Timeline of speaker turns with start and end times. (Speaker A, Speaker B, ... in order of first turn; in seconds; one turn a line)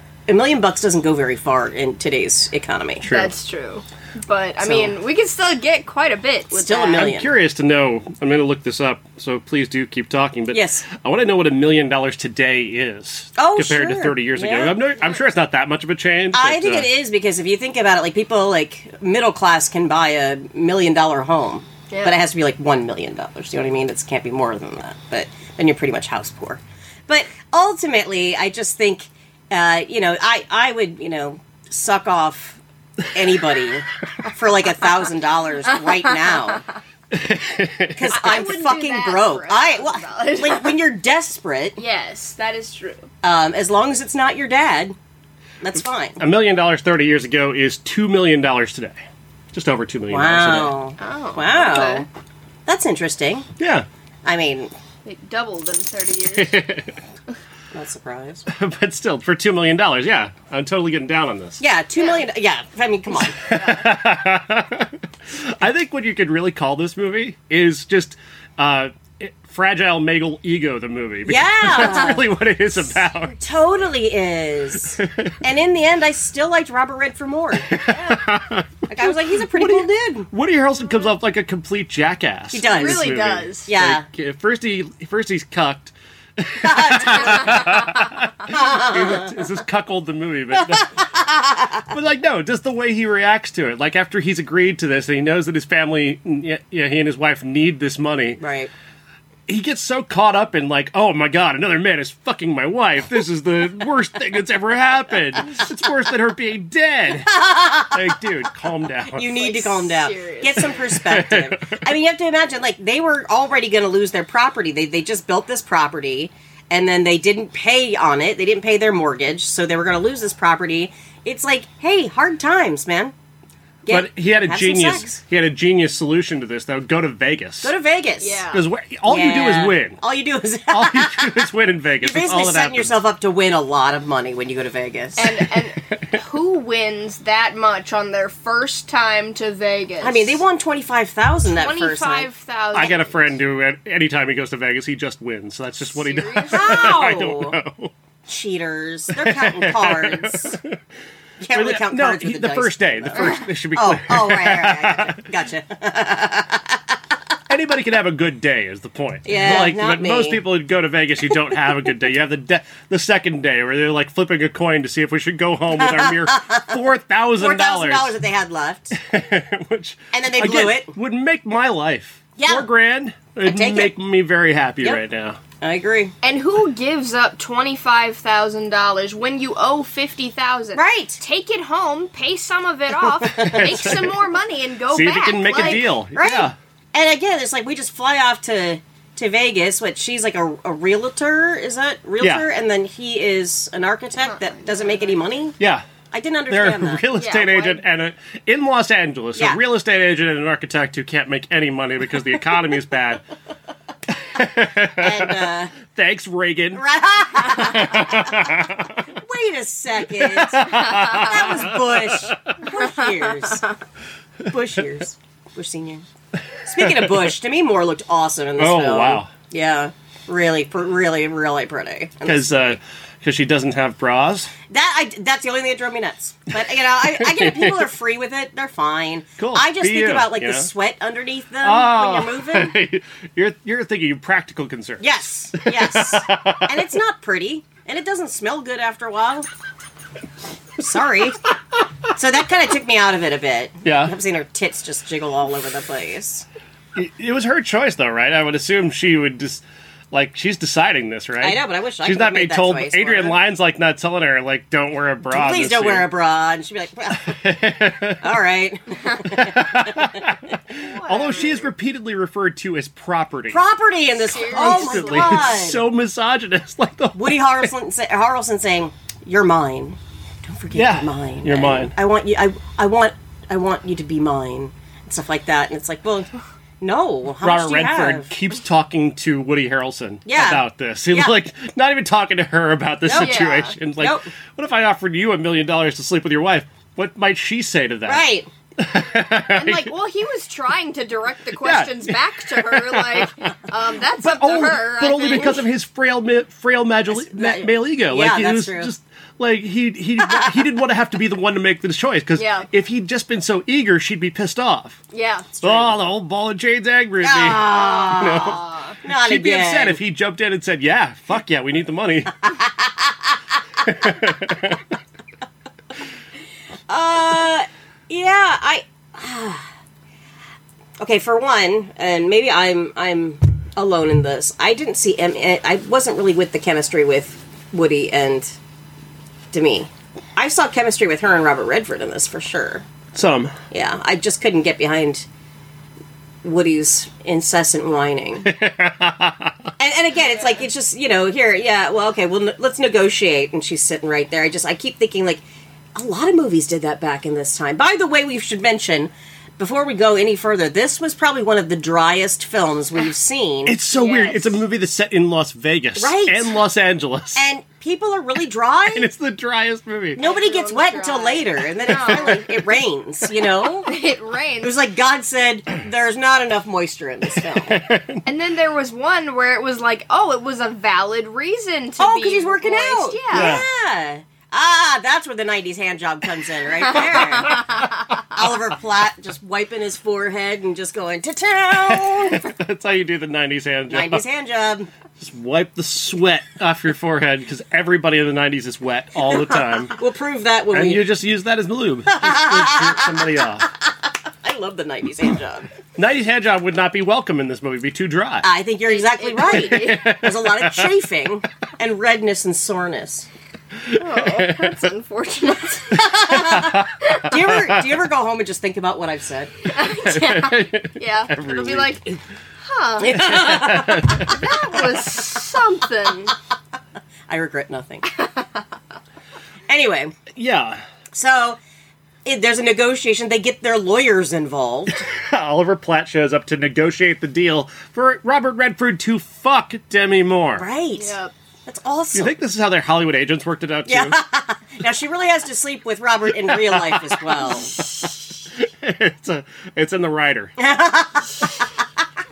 Speaker A: 0.3-3.1
Speaker B: 3.0-3.3
Speaker C: 3.1-7.1
Speaker A: 4.6-4.9
Speaker A: 6.5-7.3
Speaker B: 7.0-16.9
Speaker A: 10.5-10.8
Speaker A: 13.3-14.8
Speaker A: 16.3-36.6
Speaker C: 21.9-22.1
Speaker B: 37.1-38.1
Speaker A: 37.9-41.8
Speaker C: 38.1-40.8
Speaker C: 41.8-43.1
Speaker A: 43.2-44.9
Speaker A: 45.6-46.2
Speaker B: 46.2-49.0
Speaker B: 49.5-50.8
Speaker A: 50.1-52.1
Speaker C: 51.0-52.0
Speaker A: 52.6-53.5
Speaker B: 53.6-53.9
Speaker A: 54.2-54.7
Speaker C: 55.0-56.6
Speaker B: 56.3-56.9
Speaker A: 57.7-58.5
Speaker B: 58.5-61.6
Speaker A: 61.6-63.4
Speaker C: 63.4-63.8
Speaker B: 63.4-73.4
Speaker A: 71.2-72.2
Speaker A: 73.3-77.8
Speaker B: 75.0-75.3
Speaker B: 77.7-91.0
Speaker C: 77.9-78.2
Speaker A: 78.9-80.3
Speaker A: 82.5-83.1
Speaker C: 82.6-83.7
Speaker A: 83.7-84.0
Speaker A: 86.6-89.4
Speaker A: 90.6-91.9
Speaker B: 91.9-98.4
Speaker A: 98.4-98.7
Speaker B: 99.5-109.4
Speaker A: 107.5-107.9
Speaker A: 109.1-123.1
Speaker C: 109.3-110.9
Speaker B: 110.9-111.8
Speaker A: 123.8-125.2
Speaker B: 123.9-127.7
Speaker A: 127.6-128.4
Speaker C: 128.2-128.6
Speaker B: 128.5-130.0
Speaker A: 129.1-131.4
Speaker B: 130.7-133.0
Speaker A: 132.0-135.3
Speaker C: 135.2-140.4
Speaker A: 140.0-142.3
Speaker C: 141.5-143.3
Speaker B: 142.7-147.9
Speaker C: 145.9-147.0
Speaker A: 146.5-147.6
Speaker A: 148.3-150.6
Speaker B: 149.1-150.8
Speaker A: 151.4-156.9
Speaker B: 151.5-155.2
Speaker B: 157.5-168.2
Speaker A: 159.2-160.4
Speaker A: 165.7-166.8
Speaker A: 167.4-169.0
Speaker B: 168.9-175.4
Speaker A: 170.1-170.9
Speaker A: 172.4-172.7
Speaker A: 173.4-173.9
Speaker A: 175.6-176.1
Speaker C: 176.2-185.9
Speaker A: 180.7-181.2
Speaker A: 183.2-184.0
Speaker B: 183.3-184.1
Speaker B: 184.9-186.5
Speaker A: 185.5-195.6
Speaker B: 192.2-192.4
Speaker C: 194.5-195.0
Speaker B: 195.6-195.9
Speaker A: 196.1-197.0
Speaker B: 196.5-203.2
Speaker C: 197.1-197.8
Speaker A: 199.3-199.6
Speaker B: 204.1-206.8
Speaker A: 204.9-205.7
Speaker A: 206.7-213.7
Speaker B: 207.3-209.0
Speaker B: 210.1-212.6
Speaker C: 210.9-211.4
Speaker A: 214.4-216.0
Speaker A: 216.6-222.8
Speaker B: 216.8-217.3
Speaker B: 218.6-219.3
Speaker B: 222.2-224.5
Speaker A: 224.7-232.7
Speaker B: 227.0-227.8
Speaker B: 229.4-230.7
Speaker B: 231.6-236.8
Speaker A: 235.0-239.5
Speaker A: 240.8-241.4
Speaker A: 242.1-246.4
Speaker B: 243.8-244.1
Speaker B: 246.9-256.1
Speaker A: 251.4-253.4
Speaker A: 255.2-257.4
Speaker B: 257.2-258.2
Speaker A: 258.2-260.3
Speaker B: 259.2-263.6
Speaker C: 260.7-261.7
Speaker A: 263.5-265.8
Speaker C: 264.2-265.6
Speaker B: 264.5-267.7
Speaker A: 267.1-278.3
Speaker B: 270.7-271.9
Speaker B: 277.4-288.2
Speaker A: 280.2-281.3
Speaker A: 283.0-283.4
Speaker C: 283.2-283.8
Speaker A: 284.0-284.3
Speaker A: 288.1-288.5
Speaker B: 288.8-289.9
Speaker C: 289.5-295.6
Speaker B: 291.6-293.5
Speaker B: 294.2-305.0
Speaker A: 297.1-298.9
Speaker A: 300.2-300.6
Speaker C: 302.4-302.7
Speaker C: 305.1-305.6
Speaker A: 305.6-305.9
Speaker B: 305.6-312.5
Speaker A: 307.2-310.0
Speaker C: 307.7-308.9
Speaker A: 312.5-314.2
Speaker B: 313.8-314.9
Speaker A: 316.9-319.7
Speaker A: 321.0-328.5
Speaker A: 329.5-332.9
Speaker B: 333.1-333.6
Speaker A: 333.7-335.2
Speaker A: 336.4-338.5
Speaker B: 338.4-339.7
Speaker A: 339.8-345.4
Speaker A: 345.9-353.7
Speaker B: 353.6-357.4
Speaker C: 353.9-354.6
Speaker A: 356.0-356.5
Speaker A: 357.3-359.1
Speaker B: 358.9-360.2
Speaker A: 360.1-363.9
Speaker C: 360.2-362.4
Speaker B: 361.9-362.6
Speaker C: 363.8-364.7
Speaker A: 364.6-367.8
Speaker B: 367.4-368.2
Speaker C: 368.2-373.6
Speaker A: 372.0-382.5
Speaker B: 373.3-373.6
Speaker C: 377.4-377.8
Speaker B: 381.8-384.2
Speaker A: 383.9-384.9
Speaker B: 385.2-389.9
Speaker A: 389.9-391.1
Speaker B: 390.7-393.7
Speaker A: 392.1-393.2
Speaker A: 394.4-395.7
Speaker B: 395.9-398.5
Speaker A: 398.4-403.3
Speaker C: 398.9-400.0
Speaker B: 399.5-400.9
Speaker B: 403.8-404.8
Speaker C: 404.0-406.4
Speaker A: 405.9-409.5
Speaker B: 406.1-407.8
Speaker C: 409.7-412.0
Speaker B: 409.8-412.2
Speaker C: 412.6-416.3
Speaker A: 413.0-414.4
Speaker B: 413.1-414.4
Speaker A: 417.3-418.1
Speaker C: 418.2-418.4
Speaker A: 419.7-420.2
Speaker B: 420.3-420.8
Speaker A: 421.1-421.6
Speaker A: 422.2-425.0
Speaker B: 424.9-430.6
Speaker A: 430.6-432.3
Speaker C: 430.9-431.3
Speaker B: 432.1-434.2
Speaker A: 433.9-437.8
Speaker B: 436.4-440.5
Speaker A: 440.6-441.7